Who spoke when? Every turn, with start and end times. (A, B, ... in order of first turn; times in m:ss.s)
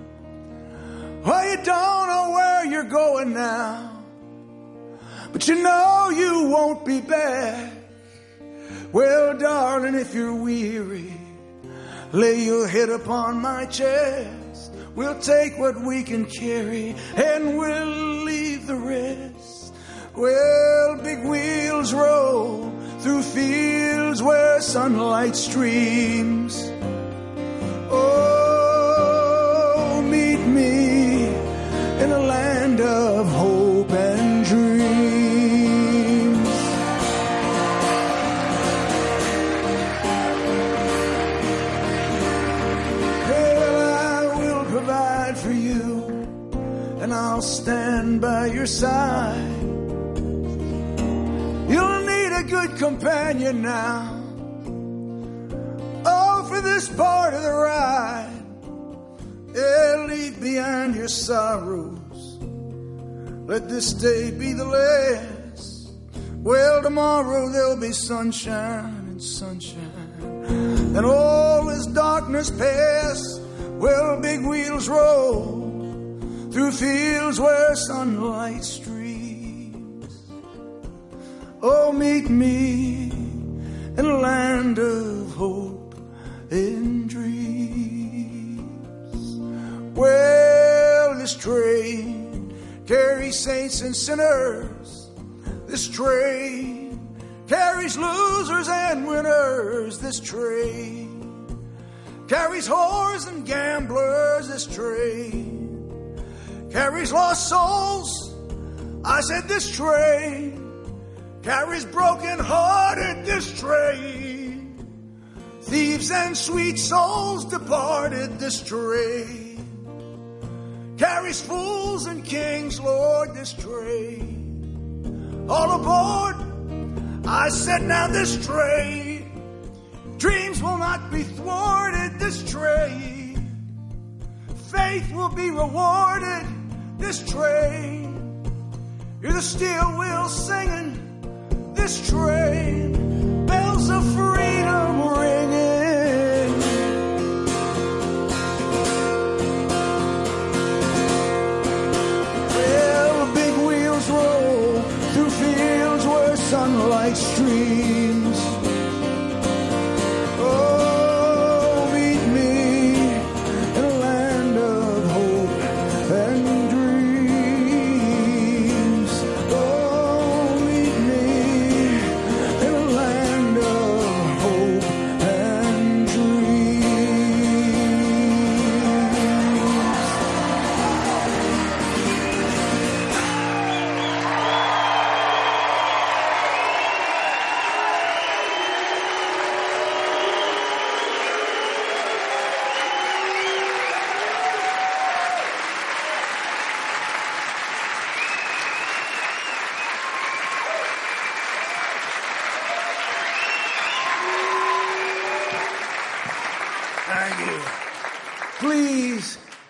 0:01.2-0:04.1 A
0:05.3-0:07.8 A
0:08.9-0:11.3 A
0:12.1-0:26.7 A
0:27.9-0:31.4 A
0:32.0-0:36.7 A
0:43.2-0:46.2 A
0:47.0-0:49.7 A
0:51.7-0:54.4 A
0:56.0-0:58.4 A
0:59.5-1:02.4 A
1:03.4-1:05.9 A
1:06.4-1:15.9 A
1:16.5-1:20.0 A
1:21.6-1:23.4 A
1:24.0-1:26.0 A
1:26.5-1:28.7 A
1:29.9-1:35.1 A
1:35.7-1:41.2 A
1:42.3-1:45.8 A
1:46.7-1:48.4 A
1:49.0-1:50.7 A
1:51.4-1:54.8 A
1:55.6-1:59.7 A
2:01.0-2:04.5 A
2:05.5-2:06.6 A
2:07.2-2:09.3 A
2:10.2-2:13.5 A
2:14.6-2:18.4 A
2:19.2-2:21.1 A
2:21.7-2:27.0 A
2:32.5-2:38.6 A
2:40.4-3:00.0 A
3:27.1-3:27.7 A
3:28.6-3:29.4 A